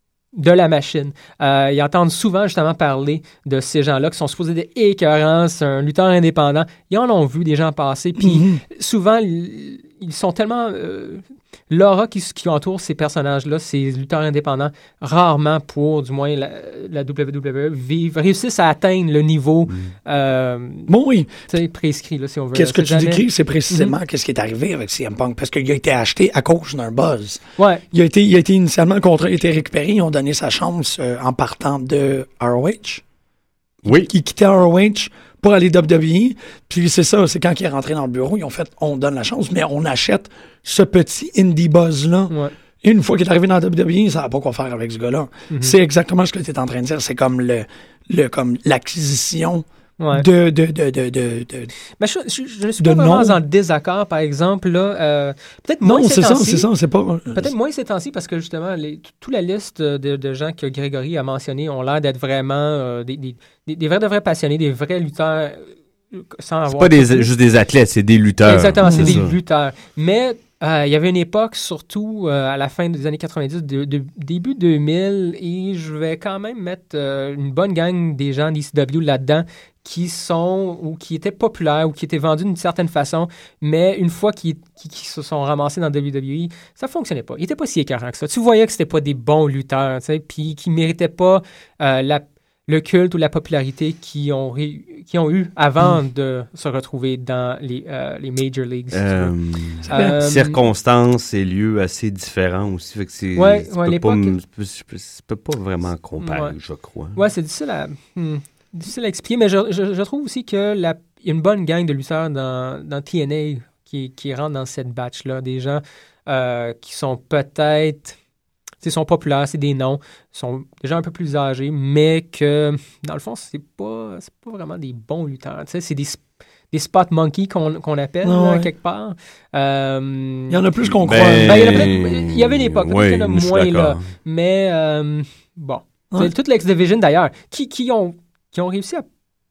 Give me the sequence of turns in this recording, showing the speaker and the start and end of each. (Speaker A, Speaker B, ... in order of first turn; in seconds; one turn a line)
Speaker A: 0.3-20.9
Speaker B: 8.2-8.6
Speaker B: 20.9-21.5
Speaker A: 21.5-23.9
Speaker B: 22.5-33.0
Speaker A: 27.6-27.8
Speaker C: 33.8-34.1
Speaker B: 33.9-51.7
Speaker A: 45.5-45.7
Speaker A: 50.0-50.3
Speaker A: 52.0-56.7
Speaker B: 52.8-53.4
Speaker B: 55.8-57.5
Speaker A: 57.3-67.3
Speaker C: 66.7-69.3
Speaker A: 68.4-99.3
Speaker B: 68.8-69.2
Speaker C: 98.9-107.2
Speaker B: 99.9-100.2
Speaker A: 99.9-100.6
Speaker A: 103.3-104.3
Speaker A: 106.2-106.5
Speaker A: 107.1-118.2
Speaker A: 118.8-130.6
Speaker B: 128.2-128.7
Speaker B: 130.5-131.9
Speaker C: 131.0-134.1
Speaker A: 131.4-139.1